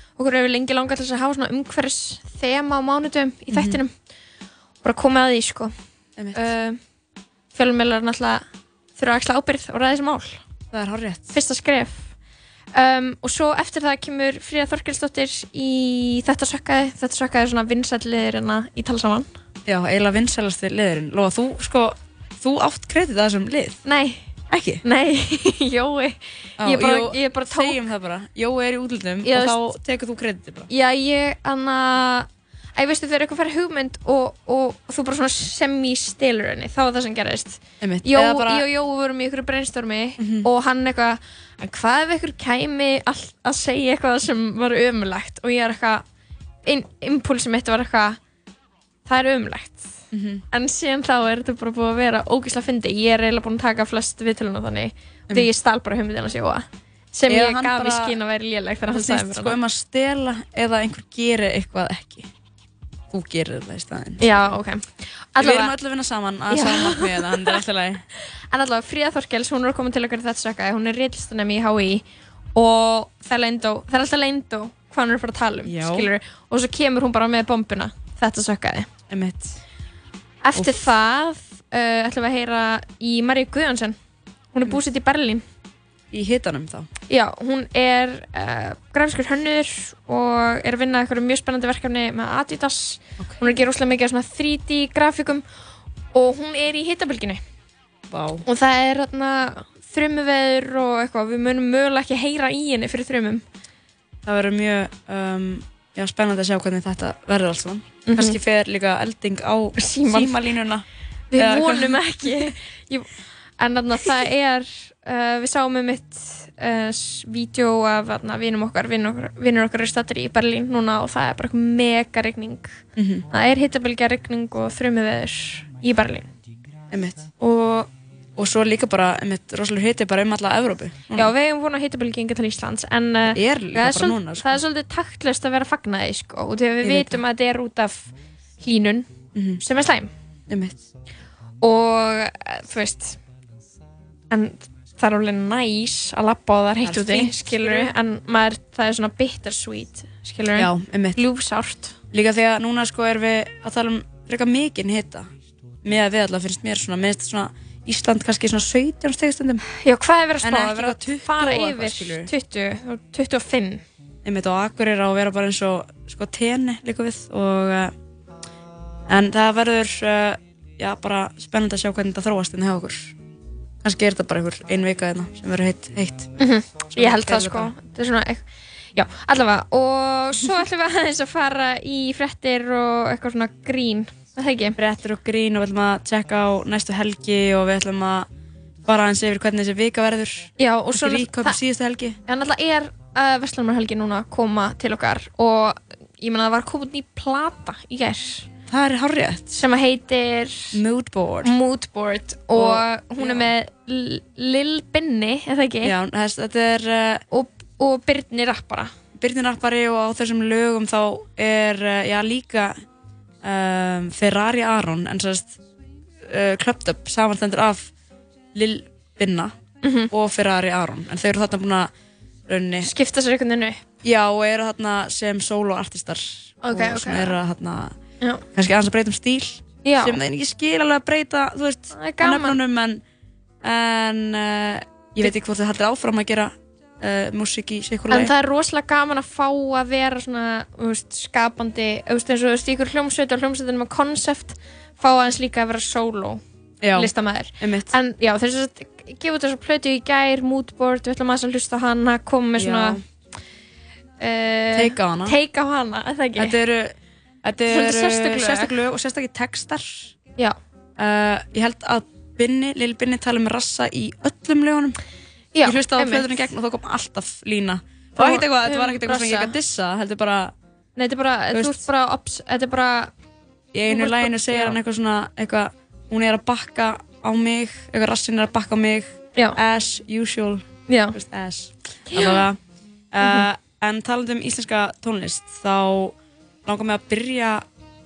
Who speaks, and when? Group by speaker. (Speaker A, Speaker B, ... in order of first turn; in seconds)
Speaker A: 0.2-3.9, 4.8-5.7, 6.3-6.8, 7.5-8.4, 8.9-10.4, 11.3-12.1, 12.7-19.3, 23.8-24.3, 24.8-27.8, 29.2-29.6, 30.7-46.0, 46.6-48.2, 49.0-49.9, 50.5-59.6, 64.2-65.7, 66.5-67.6, 68.5-72.0, 72.5-78.9, 80.4-84.0, 84.5-85.4, 87.1-95.4, 96.1-97.4, 98.5-103.4, 108.1-108.4, 109.8-110.5, 111.3-126.3, 127.4-127.9, 131.1-140.1, 141.6-143.2, 144.3-151.9, 159.8-163.8, 176.4-184.8, 190.6-191.6, 192.2-198.5, 199.5-200.8, 201.4-205.9, 207.3-208.9, 219.8-220.1, 222.8-223.8, 226.6-227.3, 229.8-230.2, 231.9-232.6, 238.1-246.4, 246.9-253.0, 254.2-256.6, 257.7-258.7, 265.5-266.5, 268.2-269.5, 271.0-273.1, 273.9-274.7, 280.9-281.1, 282.1-282.4
Speaker B: 3.5-3.8, 6.2-6.4, 10.7-11.3, 19.6-23.8, 24.5-24.8, 26.6-30.7, 37.8-38.6, 40.2-40.5, 50.1-50.4, 57.3-58.1, 58.9-62.3, 63.1-64.3, 65.4-68.0, 75.6-76.1, 79.1-79.5, 80.5-80.8, 86.1-86.9, 98.1-98.4, 104.2-112.0, 123.0-123.2, 126.9-127.3, 128.3-131.3, 133.3-134.6, 136.8-137.2, 139.3-139.6, 140.5-140.8, 146.8-147.9, 150.6-151.2, 152.1-155.3, 155.8-159.6, 160.4-162.3, 164.2-167.9, 169.1-173.1, 173.8-176.3, 176.9-177.7, 184.8-188.3, 188.8-192.2, 198.7-199.6, 200.7-201.5, 202.5-203.5, 205.8-207.2, 209.2-212.8, 213.4-215.6, 216.2-217.9, 218.5-219.5, 220.1-221.9, 222.5-222.9, 224.0-227.9, 228.5-233.0, 233.6-238.3, 246.8-247.9, 252.6-253.0, 254.7-255.3, 256.4-260.1, 261.0-265.0, 265.6-270.5, 271.5-271.8, 273.7-282.6, 283.1-287.6